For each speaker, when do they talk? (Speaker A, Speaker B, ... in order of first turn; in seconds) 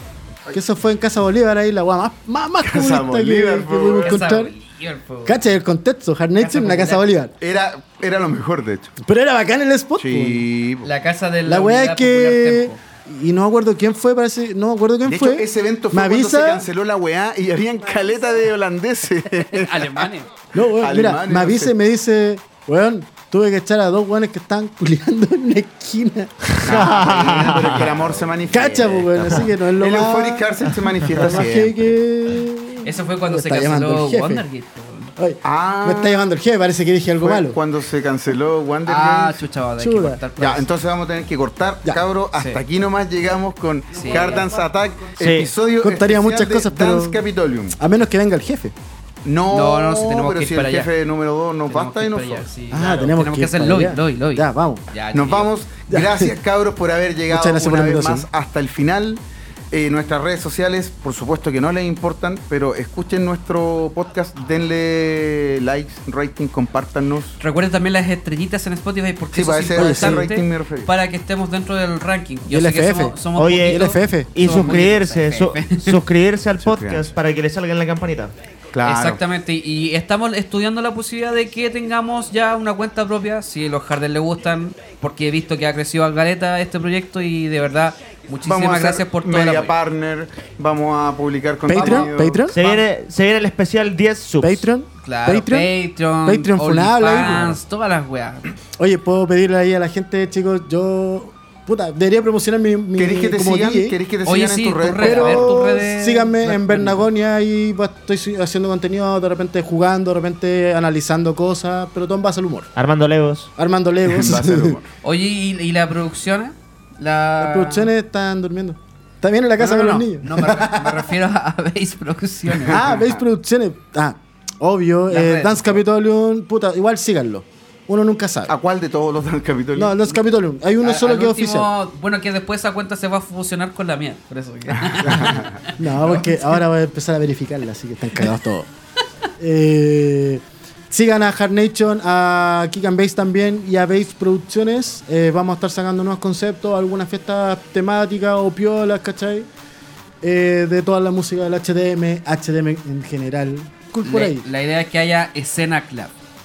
Speaker A: 0.5-4.5, 5.2-7.3, 9.0-10.4, 11.4-16.7, 20.5-26.4, 28.5-30.5, 31.1-34.4, 35.2-37.6, 39.8-40.2, 43.9-47.2, 47.8-48.7, 52.7-54.8, 55.9-56.3, 57.3-58.3, 69.7-70.2, 72.5-74.6, 91.7-92.5, 94.4-95.7, 96.2-97.4, 98.8-104.0, 105.0-112.7, 113.5-114.8, 117.4-121.1, 122.7-128.5, 129.8-131.7, 135.8-138.7, 139.4-149.5, 150.2-154.4
Speaker B: 2.6-4.2, 7.4-8.9, 10.0-10.9, 15.0-21.7, 26.6-32.0, 35.4-36.3, 37.2-39.5, 40.4-47.8, 49.2-52.5, 55.1-67.4, 69.3-70.9, 76.6-77.1, 78.7-79.2, 88.4-92.5, 103.0-105.6, 114.0-114.9, 122.7-123.2, 128.5-130.2, 134.7-135.6
Speaker C: 4.0-5.5, 6.4-7.0, 10.8-12.8, 19.4-20.3, 32.8-35.1, 38.9-40.7, 42.3-42.6, 44.0-44.5, 49.5-50.9, 51.7-55.5, 67.4-76.0, 78.8-89.8, 91.7-92.8, 95.0-98.5, 104.2-107.1, 115.0-117.9, 119.6-122.9, 125.1-125.8, 130.8-136.6, 154.0-156.1
Speaker D: 26.6-27.9, 45.2-45.5, 73.3-78.3, 92.5-94.7, 112.7-113.5